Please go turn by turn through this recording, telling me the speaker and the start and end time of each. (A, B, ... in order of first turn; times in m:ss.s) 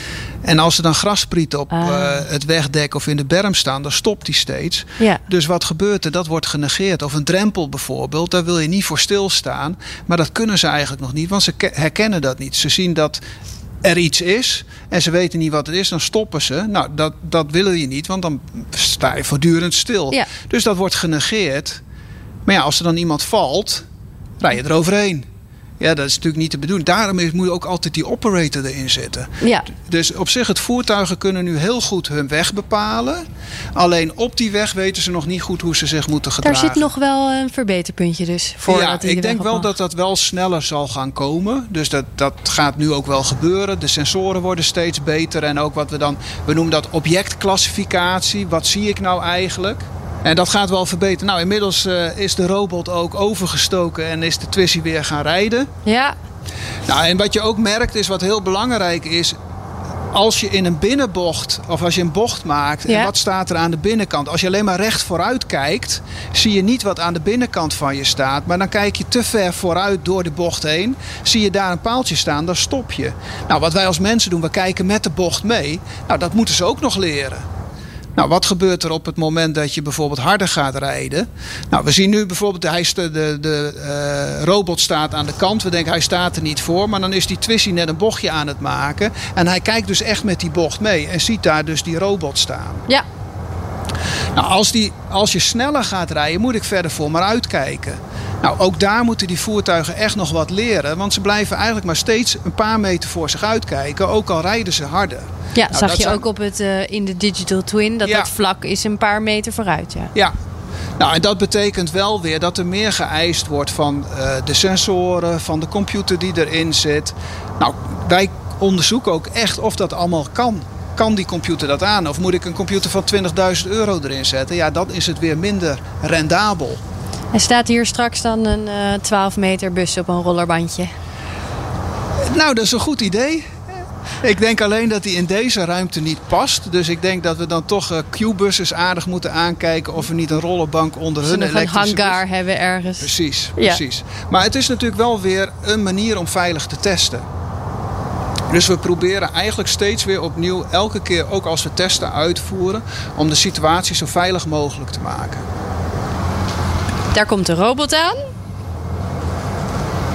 0:00.4-0:13.2 A
0:01.7-0:02.3 B
0:13.8-0:21.8 A
0:22.5-0:23.9 A
0:24.4-0:25.3 A
0:25.8-0:33.2 A
0:29.4-0:29.7 B
0:33.8-0:36.9 A
0:36.4-0:39.7 B
0:38.7-0:55.7 A
0:55.8-0:56.2 B
0:56.9-0:59.4 A
1:00.1-1:17.4 A
1:02.9-1:03.1 B
1:18.2-1:32.8 A
1:34.4-1:46.2 A
1:45.6-1:50.1 B
1:48.0-1:48.3 A
1:51.0-2:06.8 A
2:07.3-2:10.9 B
2:12.3-2:13.5 A
2:14.2-2:22.2 A
2:21.2-2:23.8 B
2:23.0-2:27.2 A
2:28.5-2:35.4 A
2:37.1-2:38.3 B